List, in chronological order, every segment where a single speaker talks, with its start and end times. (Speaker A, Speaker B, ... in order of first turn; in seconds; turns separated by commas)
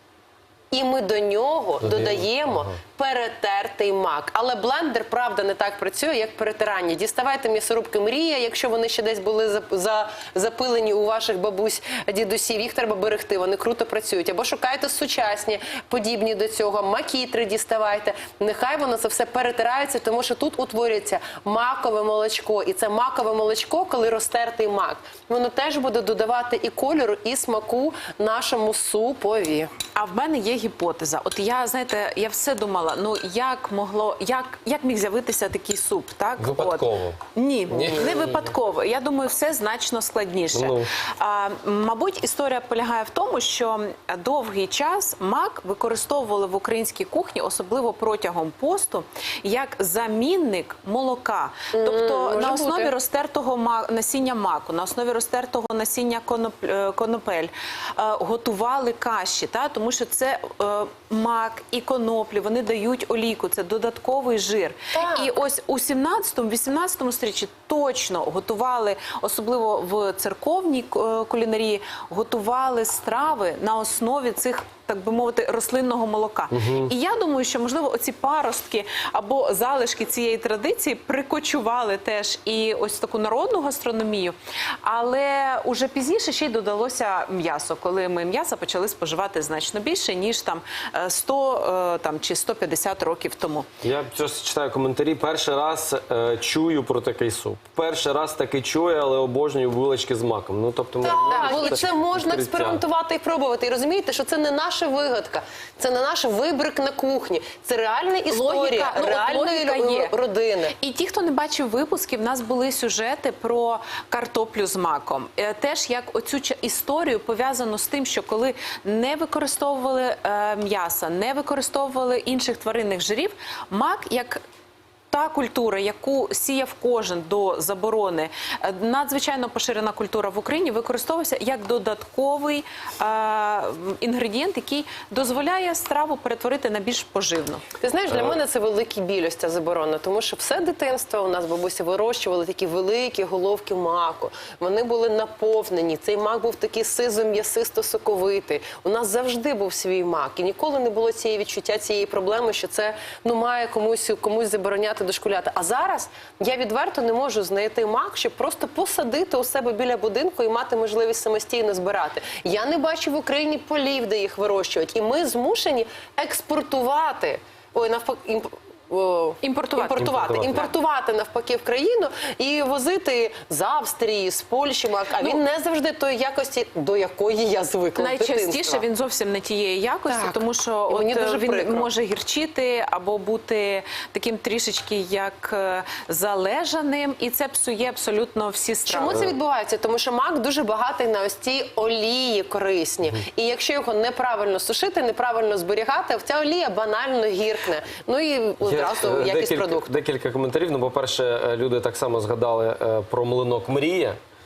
Speaker A: 0.7-29.7, Speaker B: 1.8-2.8, Speaker C: 29.9-93.7, Speaker B: 36.4-37.2, Speaker B: 37.7-38.5, Speaker B: 40.5-40.9, Speaker A: 51.7-52.9, Speaker A: 64.9-65.3, Speaker B: 76.5-76.9, Speaker B: 93.8-102.8, Speaker A: 101.0-110.7, Speaker C: 101.1-101.8, Speaker C: 108.3-110.1, Speaker C: 110.7-124.4, Speaker C: 125.1-137.6, Speaker A: 137.8-178.8, Speaker C: 169.4-170.7, Speaker B: 169.9-170.6, Speaker C: 178.0-189.2, Speaker A: 180.1-181.9, Speaker A: 188.8-199.9, Speaker B: 198.6-204.2